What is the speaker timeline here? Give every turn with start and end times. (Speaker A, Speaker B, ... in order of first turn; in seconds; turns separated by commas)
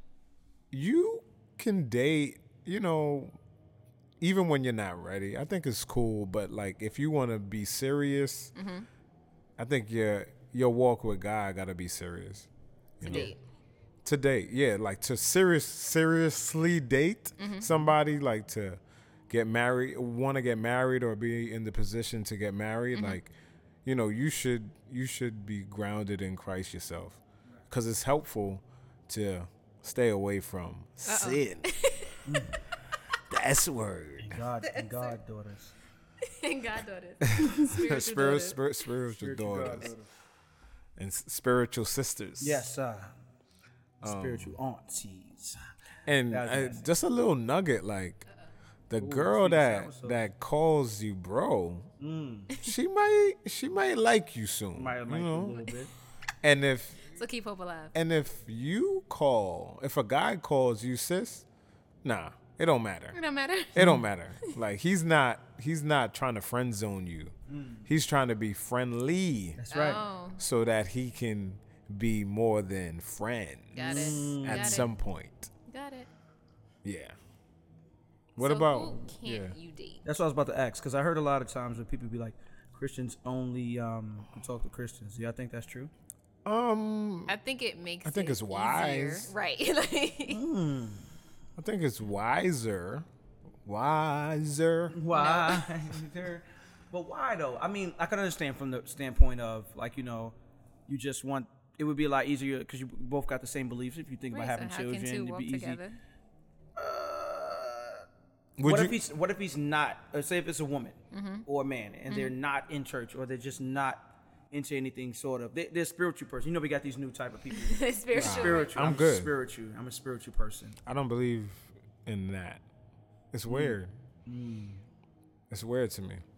Speaker A: 0.7-3.4, Speaker A: 4.2-8.5, Speaker B: 8.6-8.9, Speaker A: 9.6-12.5, Speaker A: 13.0-13.3, Speaker B: 13.0-13.4, Speaker C: 13.0-13.3, Speaker A: 14.0-23.3, Speaker B: 17.4-17.7, Speaker B: 22.9-23.2, Speaker A: 23.8-31.7, Speaker B: 31.1-32.2, Speaker C: 32.2-32.6, Speaker A: 33.3-34.4, Speaker C: 34.2-35.7, Speaker B: 34.6-35.1, Speaker B: 36.2-38.6, Speaker A: 37.2-39.9, Speaker C: 39.2-40.1, Speaker A: 41.0-42.6, Speaker C: 42.4-43.1, Speaker C: 44.0-45.6, Speaker A: 44.0-44.5, Speaker A: 46.0-48.2, Speaker C: 46.3-46.9, Speaker A: 48.9-51.9, Speaker C: 49.0-50.3, Speaker C: 52.0-52.5, Speaker A: 52.6-55.6, Speaker C: 54.7-55.9, Speaker A: 56.4-57.1, Speaker B: 57.1-57.9, Speaker A: 57.9-61.5, Speaker A: 62.0-63.2, Speaker B: 63.1-64.5, Speaker A: 63.7-67.3, Speaker C: 67.5-67.9, Speaker A: 67.8-69.6, Speaker C: 69.6-70.0, Speaker B: 69.7-70.4, Speaker A: 70.4-75.5, Speaker B: 73.7-74.9, Speaker C: 73.8-74.9, Speaker B: 75.7-76.1, Speaker A: 76.8-77.2, Speaker A: 78.3-79.5, Speaker B: 78.4-80.0, Speaker C: 80.0-85.9, Speaker A: 86.4-87.3, Speaker B: 87.3-90.4, Speaker A: 88.0-89.3, Speaker C: 90.3-91.1, Speaker A: 91.6-93.1, Speaker A: 93.6-95.0, Speaker C: 94.9-100.3, Speaker B: 95.1-95.7, Speaker C: 100.9-105.8, Speaker B: 104.3-106.0, Speaker C: 106.8-108.0, Speaker A: 108.6-109.0, Speaker C: 108.6-120.8, Speaker B: 111.1-111.5, Speaker B: 112.1-112.3, Speaker B: 117.5-118.8, Speaker A: 118.1-119.3, Speaker A: 120.8-122.6, Speaker A: 123.3-123.9, Speaker C: 123.5-124.8, Speaker A: 125.5-126.2